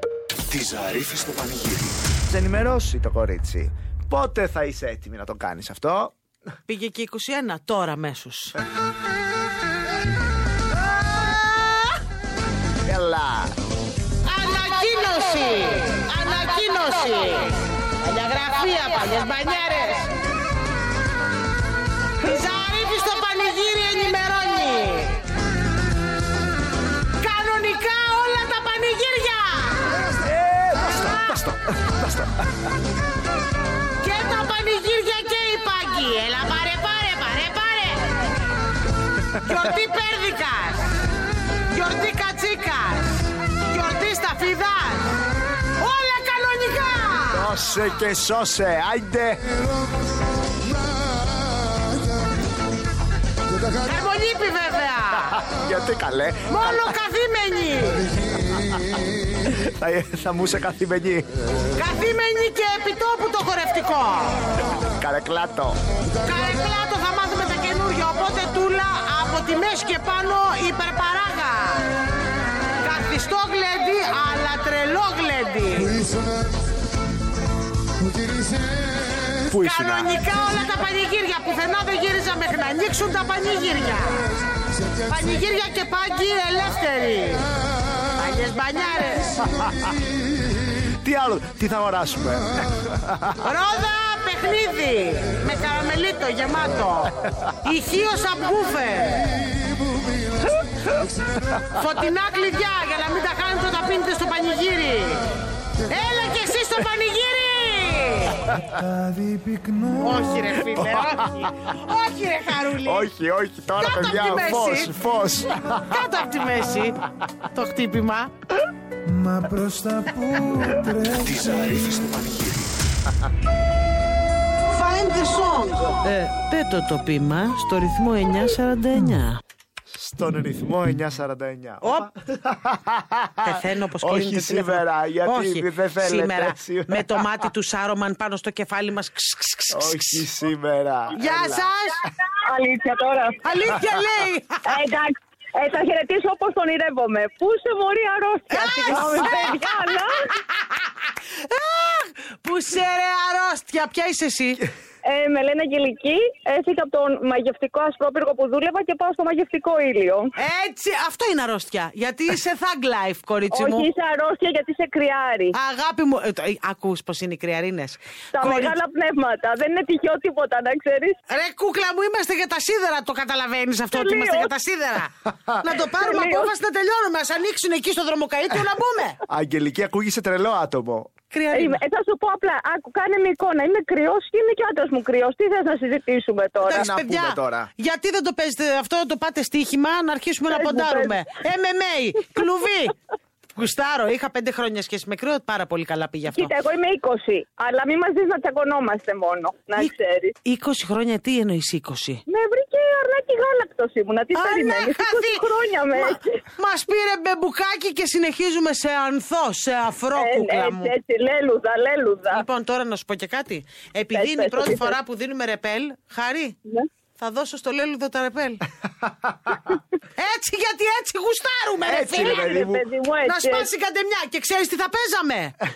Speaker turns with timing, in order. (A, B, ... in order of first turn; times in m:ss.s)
0:00.5-0:02.0 A
0:02.3-0:06.1 B
0:06.7-0:08.6 C
0:11.0-0:11.9 C
0:12.8-0:13.6 B
0:14.2-0:20.1 C
0:22.2-0:25.2 C
0:27.2-0:30.1 C
0:30.2-0:32.4 B
0:34.0-0:38.1 C
0:39.4-0:40.9 C
0:41.7-0:45.1 C
0:45.8-0:47.5 C
0:47.3-0:49.5 B
0:53.8-0:55.4 C
0:55.1-0:57.0 B
0:56.5-0:58.1 C
0:58.6-0:58.8 B
0:59.4-1:01.3 B
1:01.8-1:04.6 C
1:05.0-1:05.8 B
1:06.2-1:11.9 C
1:12.8-1:16.0 C
1:19.5-1:20.2 B
1:19.6-1:24.2 C
1:25.1-1:27.5 C
1:28.2-1:29.5 C
1:31.0-1:33.4 B
1:33.4-1:39.4 C
1:41.8-1:45.2 C
1:45.9-1:48.5 C
1:48.8-1:50.3 D
1:49.9-1:53.1 C
1:50.7-1:51.5 B
1:52.8-1:56.1 B
1:53.8-1:54.9 C
1:55.7-1:58.3 C
1:59.1-2:01.2 D
2:01.0-2:02.7 A
2:04.7-2:09.4 C
2:09.9-2:17.4 B
2:11.8-2:12.1 C
2:13.4-2:20.3 C
2:19.7-2:21.7 B
2:21.1-2:22.0 C
2:22.4-2:23.4 E
2:23.4-2:24.6 C
2:24.7-2:30.1 E
2:28.5-2:29.6 C
2:30.5-2:34.6 C
2:35.0-2:40.3 E
2:40.4-2:43.9 C
2:43.5-2:45.6 E
2:45.5-2:48.8 C
2:48.4-2:51.2 E
2:51.3-2:59.2 C
2:53.9-2:54.5 E
2:56.0-2:56.5 E
2:59.3-3:01.1 B
3:01.3-3:01.8 C
3:01.5-3:06.9 E
3:06.6-3:07.7 B
3:06.7-3:13.0 C
3:10.5-3:11.2 E
3:13.6-3:16.5 C
3:16.3-3:20.3 E
3:20.4-3:22.2 C
3:22.3-3:26.4 E
3:24.3-3:30.9 C
3:30.2-3:32.4 E
3:32.3-3:36.6 C
3:34.1-3:35.0 E
3:37.2-3:38.6 C
3:40.2-3:42.5 C
3:41.8-3:42.9 B
3:42.1-3:43.7 E
3:43.2-3:45.6 C